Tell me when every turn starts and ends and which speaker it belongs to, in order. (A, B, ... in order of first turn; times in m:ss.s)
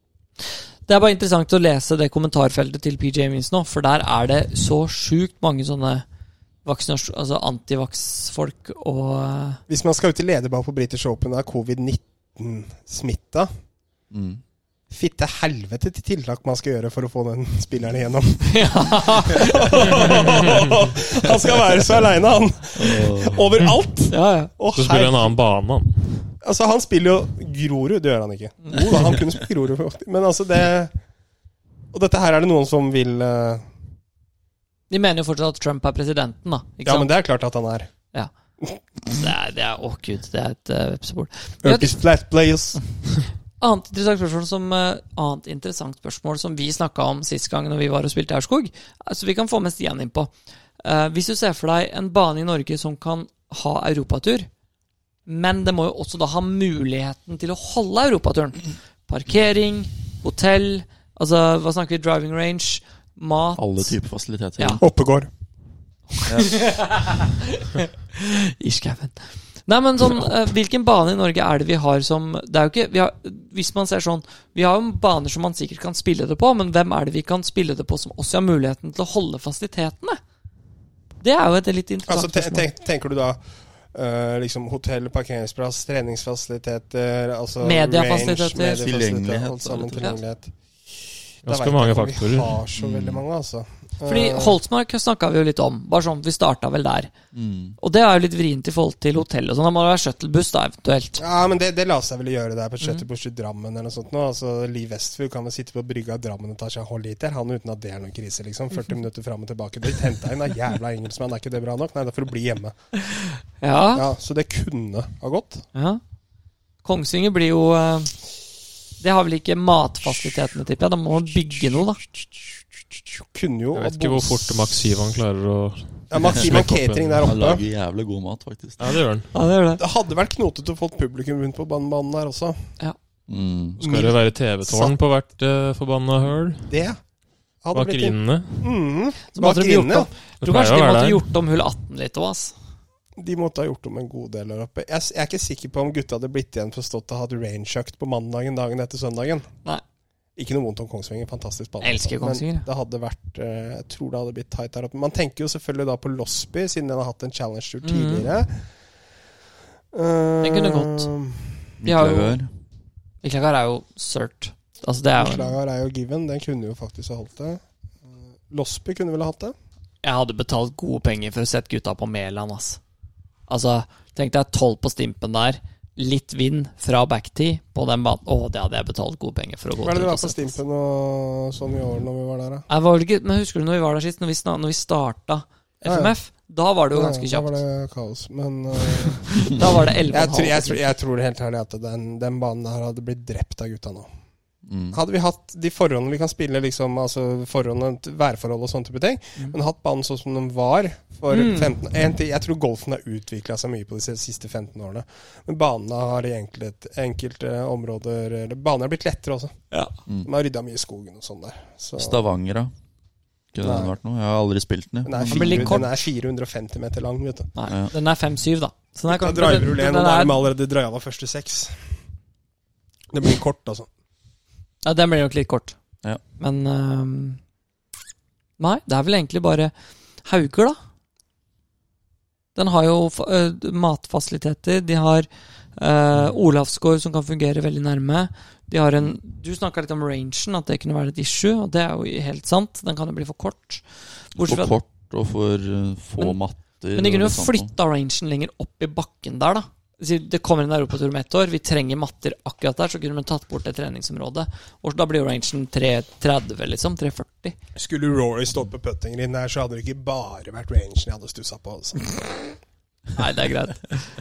0:00.4-0:06.0 A
0:06.6-0:09.6 A
0:09.7-0:13.5 B
0:14.1-0:14.4 C
0:14.9-0:25.3 B
0:18.4-0:20.2 A
0:22.7-0:23.6 C
0:24.1-0:24.5 A
0:24.7-0:26.2 D
0:26.4-0:30.9 B
0:28.6-0:29.0 A
0:31.9-0:33.6 B
0:34.9-0:37.1 A
0:36.8-0:37.9 B
0:39.1-0:42.0 A
0:41.6-0:42.8 B
0:43.6-0:54.5 A
0:55.2-1:03.9 A
1:03.6-1:04.8 C
1:04.8-1:05.3 B
1:06.1-1:20.2 A
1:06.2-1:06.8 C
1:21.2-1:22.6 A
1:22.1-1:23.4 B
1:23.9-1:30.5 B
1:27.6-1:28.8 A
1:28.8-1:30.2 C
1:31.4-1:32.6 D
1:31.5-1:34.6 B
1:32.8-1:33.2 C
1:34.0-1:37.1 A
1:37.3-1:37.8 C
1:37.8-1:41.2 A
1:41.2-1:52.8 B
1:53.1-1:54.1 A
1:53.9-1:55.6 B
1:55.7-1:56.0 A
1:56.8-1:58.2 A
1:59.0-2:02.0 A
2:03.1-2:04.9 B
2:03.7-2:07.4 D
2:06.1-2:07.6 B
2:06.3-2:06.6 C
2:07.2-2:09.0 C
2:08.8-2:09.3 D
2:09.3-2:09.8 A
2:09.8-2:12.6 B
2:13.3-2:13.8 C
2:13.8-2:14.9 B
2:13.8-2:16.7 D
2:16.7-2:17.0 B
2:17.6-2:20.1 B
2:17.7-2:18.7 D
2:19.4-2:22.5 A
2:20.4-2:21.2 D
2:23.2-2:29.5 B
2:30.4-2:38.6 B
2:31.8-2:32.7 A
2:37.8-2:38.3 A
2:39.9-2:41.6 B
2:40.4-2:41.1 A
2:41.8-2:42.5 C
2:41.8-2:42.4 A
2:43.2-2:45.6 A
2:45.2-2:47.6 B
2:48.5-2:49.6 B
2:50.0-2:52.8 A
2:53.5-3:00.6 A
2:59.8-3:02.6 B
3:02.7-3:07.6 A
3:05.8-3:06.1 B
3:06.9-3:14.1 B
3:09.3-3:10.9 A
3:14.6-3:15.0 C
3:14.9-3:29.6 B
3:21.3-3:21.7 A
3:30.2-3:32.2 B
3:32.0-3:32.7 C
3:33.5-3:35.9 C
3:33.6-3:33.9 B
3:35.0-3:37.5 B
3:35.2-3:35.9 A
3:37.6-3:40.4 A
3:37.7-3:37.9 C
3:39.1-3:41.8 B
3:43.1-3:43.9 B
3:44.8-3:45.8 A
3:46.4-3:47.4 A
3:48.6-3:49.7 A
3:50.2-3:50.8 A
3:52.6-4:04.7 A
4:04.4-4:07.7 C
4:06.9-4:17.6 A
4:17.8-4:22.3 B
4:23.1-4:23.9 A